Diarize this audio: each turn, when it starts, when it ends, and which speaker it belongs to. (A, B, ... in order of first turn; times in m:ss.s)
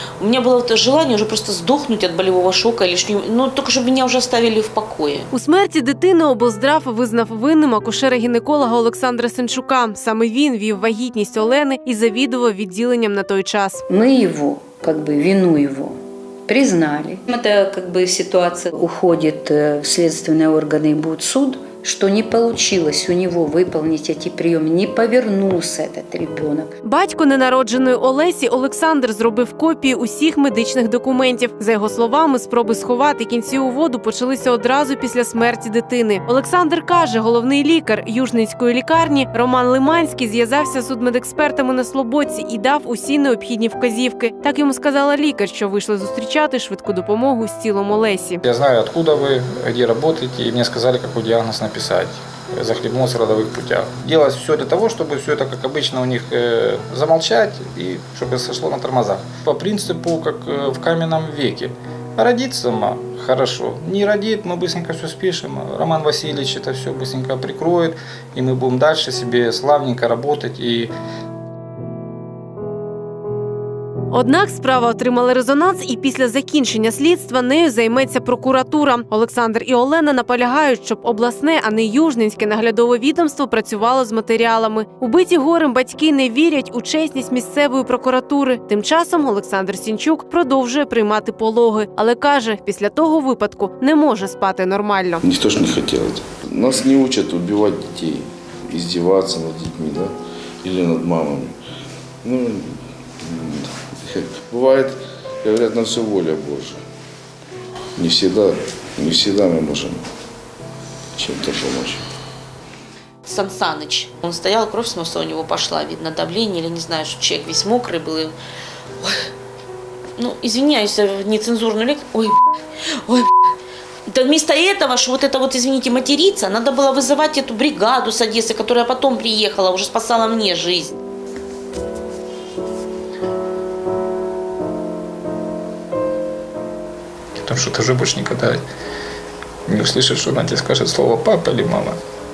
0:00.2-0:05.3 A
0:05.3-0:13.8 B
0:13.9-0:26.8 C
0:26.8-0:48.4 B
0:48.4-1:10.9 D
1:14.1-1:35.2 B
1:35.2-1:40.1 E
1:40.6-1:41.5 E
1:42.2-1:46.8 E
1:48.0-1:50.0 E
1:51.2-1:52.0 E
1:53.2-1:58.4 A
1:59.0-1:59.3 A
2:00.2-2:02.4 A
2:03.0-2:03.3 A
2:04.1-2:11.0 A
2:17.4-2:18.6 D
2:19.7-2:22.0 D